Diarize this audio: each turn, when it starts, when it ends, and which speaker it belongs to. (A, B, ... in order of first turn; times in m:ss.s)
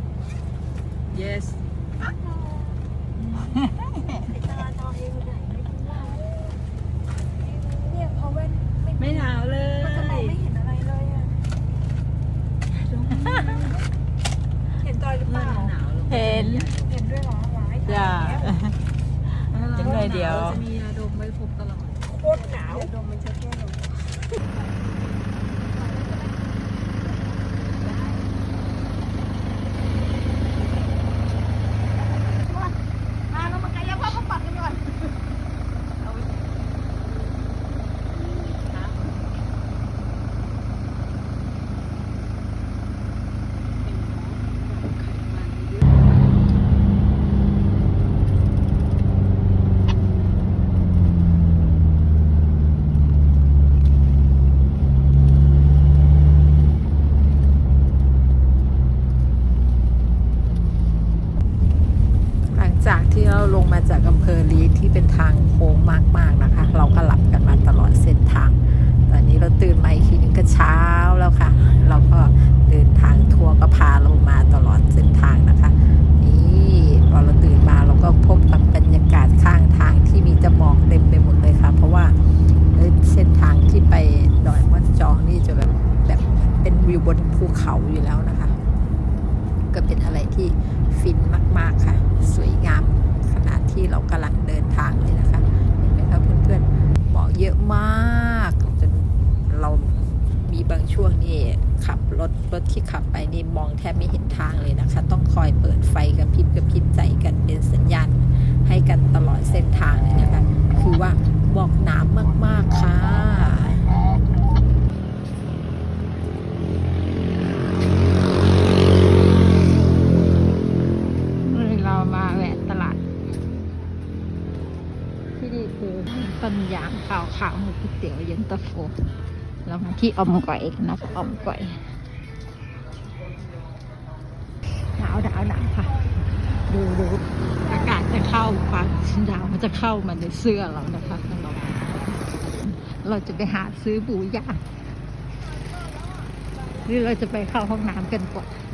0:03.4-0:04.3 A
0:04.2-0:06.3 B
0:07.7-0:11.4 B
0:09.1-0:10.4 C
0:12.8-0:13.8 B
0:14.8-0:15.8 B
0:15.3-0:16.2 C
0:16.0-0:16.7 A
0:16.7-0:18.5 B
0:17.8-0:18.3 C
0:17.9-0:18.7 A
0:19.6-0:20.6 A
0:19.8-0:21.9 C
0:22.2-0:22.9 A
0:22.3-0:23.8 B
0:32.4-0:32.7 B
0:33.3-0:34.8 B
0:43.8-0:46.0 B
1:02.4-1:22.2 A
1:22.7-1:28.6 A
1:29.7-1:54.0 A
2:01.4-2:03.0 A
2:05.4-2:08.9 A
2:09.6-2:11.8 A
2:15.0-2:24.6 A
2:26.8-2:28.5 A